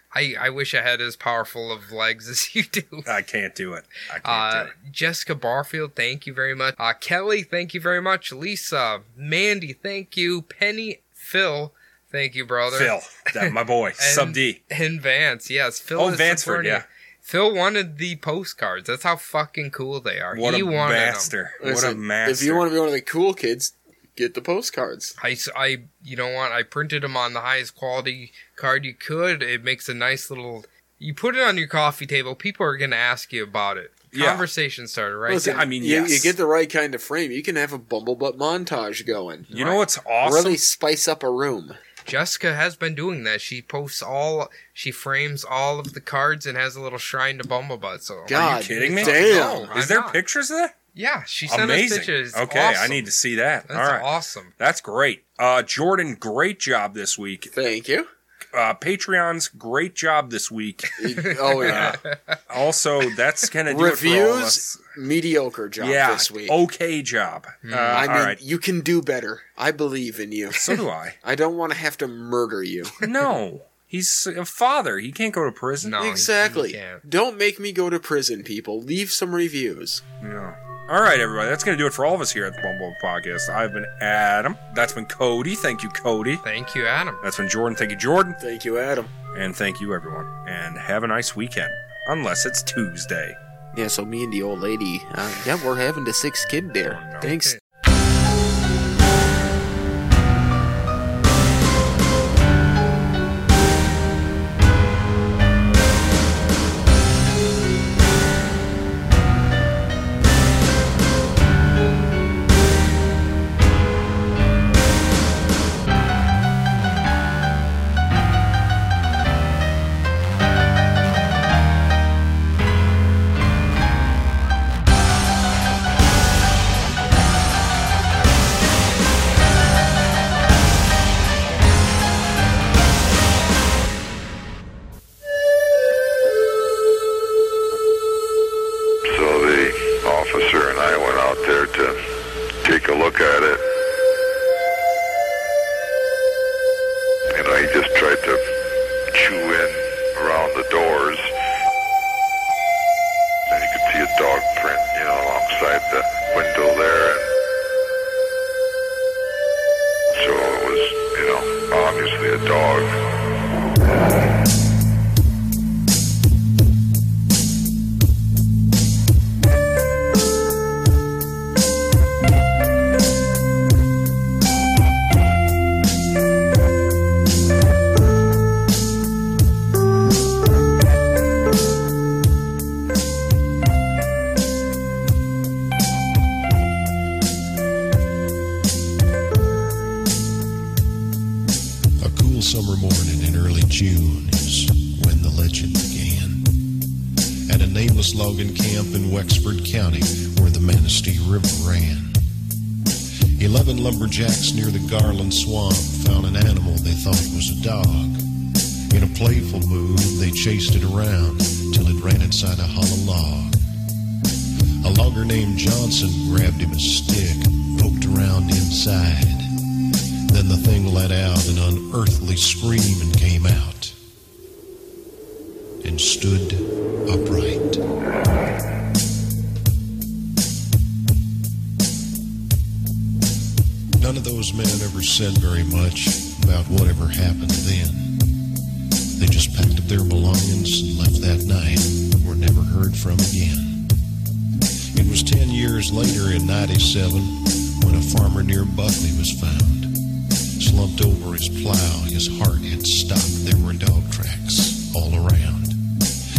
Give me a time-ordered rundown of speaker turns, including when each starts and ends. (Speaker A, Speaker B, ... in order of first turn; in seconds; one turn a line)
Speaker A: 0.1-3.1
Speaker B: 3.0-4.7
Speaker A: 4.2-21.3
Speaker B: 12.7-14.6
Speaker B: 16.0-16.8
Speaker B: 20.3-22.7
Speaker C: 21.6-25.1
Speaker A: 25.2-35.6
Speaker B: 34.1-34.5
Speaker C: 35.3-41.8
Speaker B: 35.3-36.4
Speaker B: 39.5-40.6
Speaker A: 42.1-50.2
Speaker C: 48.3-49.7
Speaker B: 48.3-50.7
Speaker A: 51.0-53.1
Speaker B: 51.5-54.1
Speaker A: 53.7-54.5
Speaker B: 54.6-57.5
Speaker C: 57.5-58.1
Speaker B: 58.5-61.0
Speaker A: 61.0-62.4
Speaker C: 61.0-62.0
Speaker B: 61.6-64.8
Speaker C: 63.7-66.5
Speaker B: 65.8-68.4
Speaker A: 67.6-68.1
Speaker C: 67.9-73.0
Speaker B: 70.5-71.2
Speaker B: 73.0-76.0
Speaker A: 75.8-77.0
Speaker C: 76.0-80.0
Speaker B: 80.2-86.4
Speaker A: 86.4-87.2
Speaker B: 87.2-88.4
Speaker C: 88.4-89.1
Speaker B: 89.3-93.4
Speaker C: 93.7-97.5
Speaker B: 96.9-97.4
Speaker D: 139.0-142.0
Speaker D: 142.6-143.6
Speaker D: 147.3-148.4
Speaker D: 149.1-151.3
Speaker D: 153.5-157.3
Speaker D: 160.1-162.9
Speaker E: 192.0-196.6
Speaker E: 197.4-202.2
Speaker E: 203.4-208.2
Speaker E: 208.9-213.6
Speaker E: 214.8-219.5
Speaker E: 220.3-223.9
Speaker E: 225.8-227.8
Speaker E: 234.0-238.3
Speaker E: 239.2-243.9
Speaker E: 244.9-250.0
Speaker E: 250.6-255.8